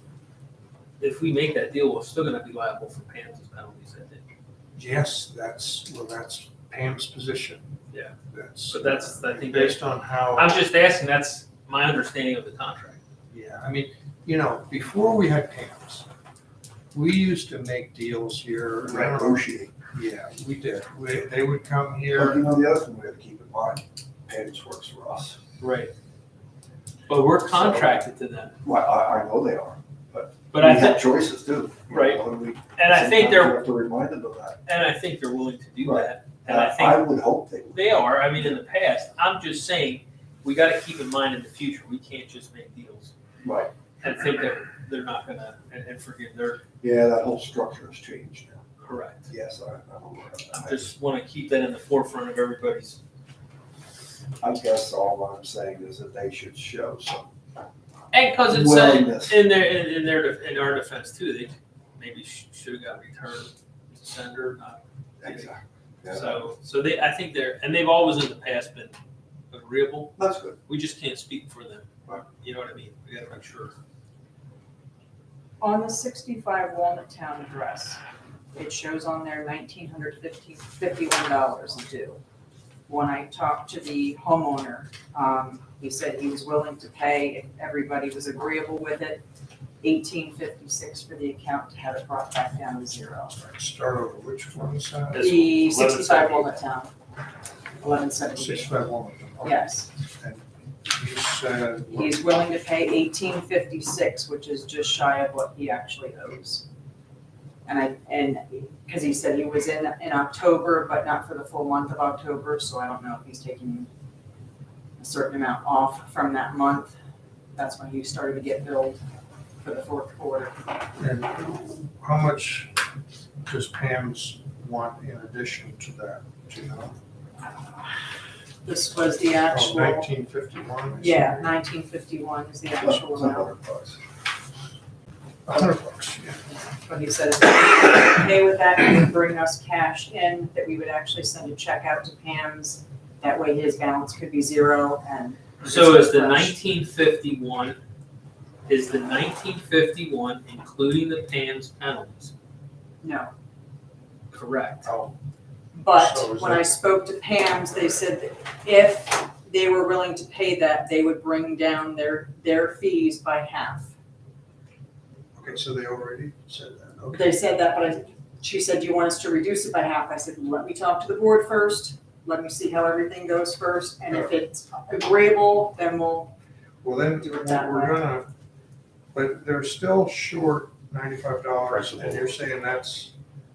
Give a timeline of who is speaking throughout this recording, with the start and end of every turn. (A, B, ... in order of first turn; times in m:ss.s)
0:01.0-0:04.2 A
0:04.8-0:07.8 B
0:08.3-0:10.5 B
0:08.7-0:09.8 A
0:10.3-0:13.0 A
0:13.3-0:16.1 B
0:16.9-0:22.4 B
0:18.8-0:19.7 C
0:22.1-0:25.4 C
0:25.6-0:25.9 A
0:27.1-0:28.5 A
0:27.5-0:28.0 C
0:28.6-0:34.6 C
0:30.5-0:31.1 A
0:31.9-0:32.2 A
0:32.7-0:33.6 A
0:34.6-0:37.1 A
0:35.8-0:38.0 C
0:37.7-0:43.1 A
0:43.4-0:43.7 C
0:44.0-0:46.6 A
0:46.8-0:48.6 C
0:48.8-0:49.2 A
0:49.2-0:50.9 C
0:50.5-0:53.0 A
0:54.4-0:57.3 C
0:58.1-1:05.5 A
0:58.4-0:59.4 C
1:05.2-1:06.4 C
1:06.1-1:09.0 A
1:09.5-1:13.7 A
1:10.2-1:10.6 C
1:15.6-1:18.0 D
1:18.5-1:22.2 D
1:22.9-1:29.2 D
1:29.8-1:33.4 D
1:33.4-1:35.4 B
1:35.1-1:36.5 A
1:35.2-1:36.9 D
1:37.8-1:38.8 D
1:38.3-1:42.1 B
1:39.4-1:39.9 D
1:41.9-1:46.6 D
1:47.6-1:53.9 D
1:55.0-1:57.0 D
1:57.5-1:59.0 D
1:59.6-2:00.6 D
2:01.0-2:02.8 B
2:03.4-2:07.0 B
2:08.6-2:10.1 D
2:09.5-2:11.5 B
2:11.0-2:13.5 D
2:12.8-2:14.0 C
2:15.5-2:16.4 B
2:16.8-2:26.5 D
2:25.6-2:27.8 A
2:28.7-2:32.3 A
2:33.0-2:33.3 D
2:34.3-2:34.9 A
2:34.8-2:35.2 B
2:35.7-2:43.9 D
2:35.9-2:36.7 B
2:45.4-2:47.4 B
2:47.1-2:56.3 D
2:56.8-2:58.3 B
2:57.2-2:58.0 D
2:59.1-3:03.1 B